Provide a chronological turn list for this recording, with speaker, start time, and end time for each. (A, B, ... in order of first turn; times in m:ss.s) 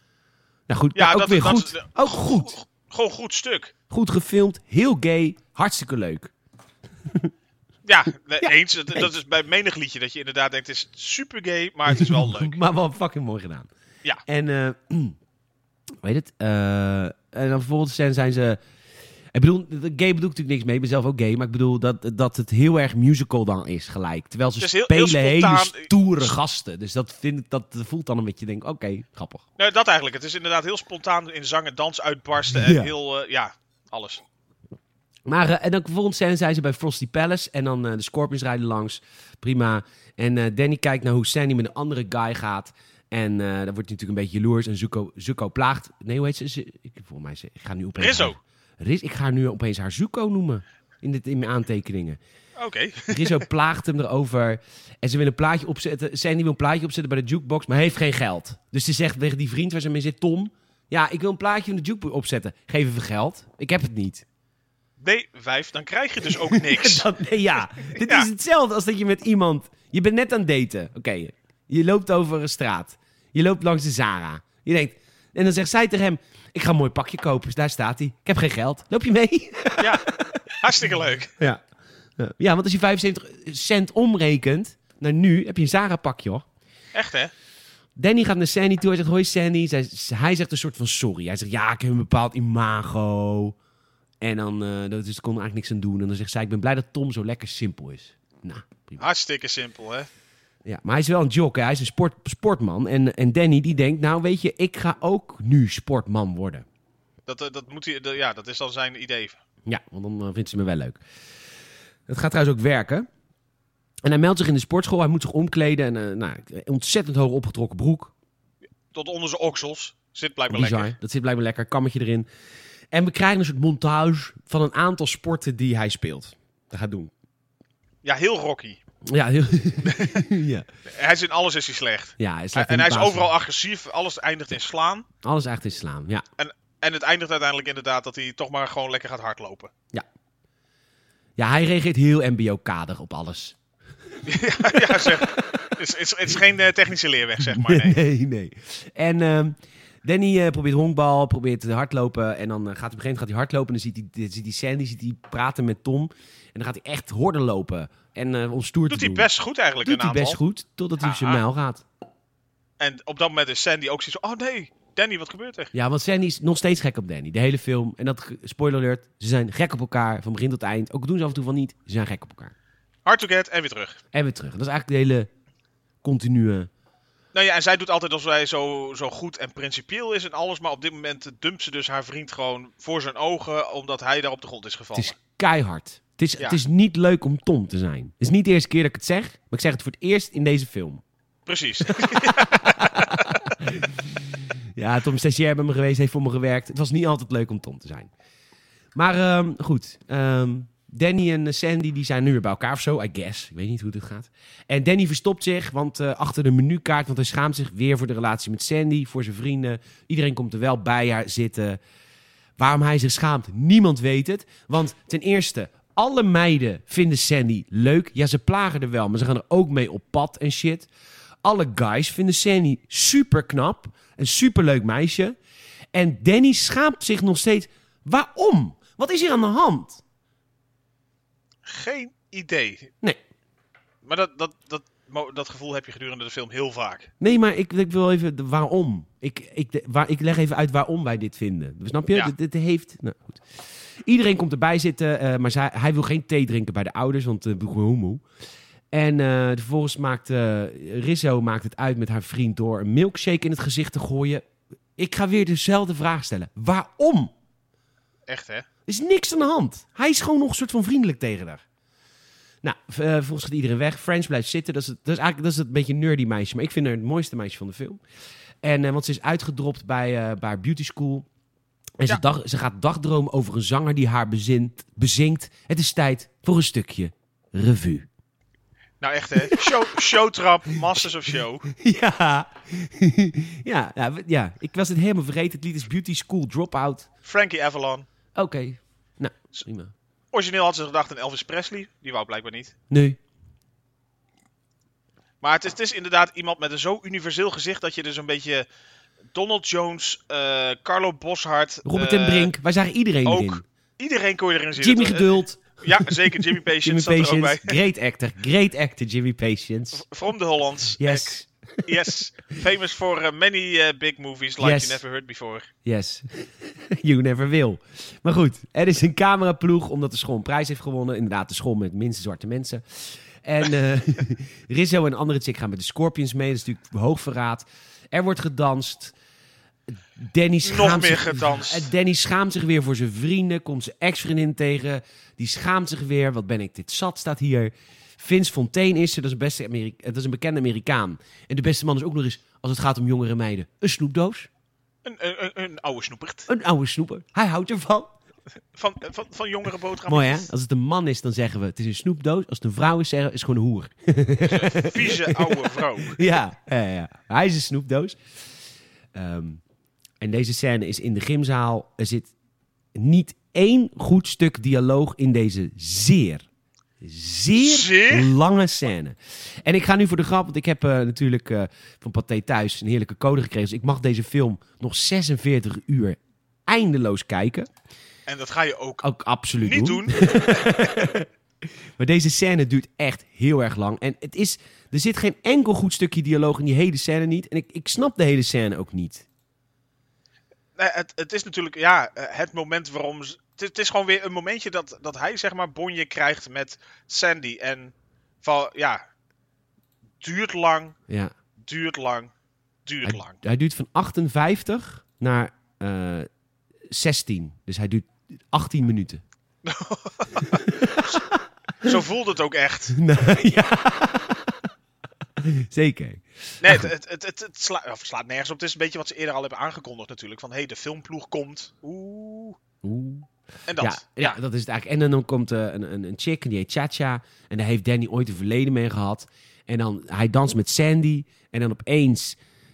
0:00.7-0:02.5 A
0:00.9-0:03.7 B
0:03.9-0:06.3 A
0:07.0-0:07.3 A
0:07.8-0:12.6 B
0:08.4-0:09.1 A
0:11.9-0:13.7 A
0:14.2-0:15.2 A
0:16.0-0:18.6 A
0:19.3-0:29.4 A
0:24.6-0:26.3 B
0:29.6-0:34.2 B
0:32.5-0:32.9 A
0:35.2-0:52.2 A
0:48.0-0:48.4 B
0:52.6-0:53.4 B
0:53.1-1:04.2 A
1:05.0-1:07.1 B
1:06.2-1:20.6 A
1:07.8-1:08.3 B
1:19.8-1:21.3 B
1:22.2-1:26.4 A
1:26.9-1:27.3 B
1:28.0-1:33.6 A
1:34.2-1:39.0 A
1:39.0-1:40.1 B
1:40.6-1:46.6 A
1:47.3-1:49.4 B
1:49.6-1:51.0 A
1:52.1-1:53.0 A
1:54.0-1:58.1 A
1:58.9-2:00.9 B
2:00.5-2:02.2 A
2:02.9-2:07.1 A
2:08.0-2:08.8 B
2:09.0-2:10.6 A
2:09.8-2:10.2 B
2:10.9-2:15.0 B
2:12.2-2:13.3 A
2:15.2-2:16.2 A
2:16.4-2:19.7 B
2:21.4-2:23.6 A
2:24.2-2:28.0 B
2:24.6-2:25.7 A
2:27.4-2:39.3 A
2:38.9-2:40.4 B
2:39.8-2:41.8 A
2:41.0-2:41.4 B
2:42.8-2:45.7 B
2:45.7-2:52.5 A
2:53.0-2:54.0 B
2:54.1-2:55.3 A
2:56.0-2:56.7 A
2:57.3-3:05.1 B
3:04.9-3:11.0 A
3:11.4-3:13.3 B
3:11.9-3:18.1 A
3:18.9-3:31.8 A
3:32.6-3:40.9 A
3:41.4-3:45.4 A
3:45.9-3:50.0 A
3:51.6-3:52.9 B
3:54.0-3:57.1 B
3:57.2-4:03.4 A
4:04.0-4:08.2 A
4:08.9-4:14.4 A
4:15.0-4:17.3 A
4:18.3-4:18.6 B
4:18.9-4:21.6 A
4:22.6-4:28.0 A
4:28.6-4:31.3 A
4:32.0-4:38.1 A
4:39.0-4:41.7 B
4:39.4-4:39.8 A
4:41.7-4:47.1 A
4:47.2-4:48.1 B
4:48.3-4:49.9 A
4:50.3-4:52.7 B
4:52.9-4:53.2 A
4:55.4-4:58.6 B
4:59.3-5:02.5 B
5:01.8-5:03.6 A
5:03.2-5:07.8 B
5:04.8-5:10.0 A
5:09.9-5:15.7 B
5:11.0-5:11.8 A
5:14.6-5:15.0 A
5:15.8-5:29.1 A
5:30.2-5:44.5 A
5:30.6-5:31.9 B
5:45.0-5:46.5 B
5:46.5-5:48.1 A
5:48.8-5:50.5 B
5:50.0-5:58.2 A
5:54.4-5:56.2 B
5:59.1-5:59.6 A
6:00.2-6:02.3 A
6:02.9-6:06.4 A
6:07.0-6:17.7 A
6:07.6-6:08.3 B
6:18.3-6:19.0 B
6:19.0-6:21.3 A
6:19.6-6:20.6 B
6:22.0-6:29.2 A
6:30.8-6:39.0 B
6:40.2-6:41.0 B
6:41.1-6:41.3 A
6:41.6-6:42.3 B
6:42.8-6:43.4 B
6:43.0-6:46.3 A
6:46.9-6:49.2 A
6:49.6-6:51.2 B
6:50.5-6:51.9 A
6:51.8-6:53.0 B
6:52.9-6:54.6 A
6:55.4-6:56.9 A
6:56.6-7:02.6 B
7:02.8-7:12.4 A
7:03.7-7:04.4 B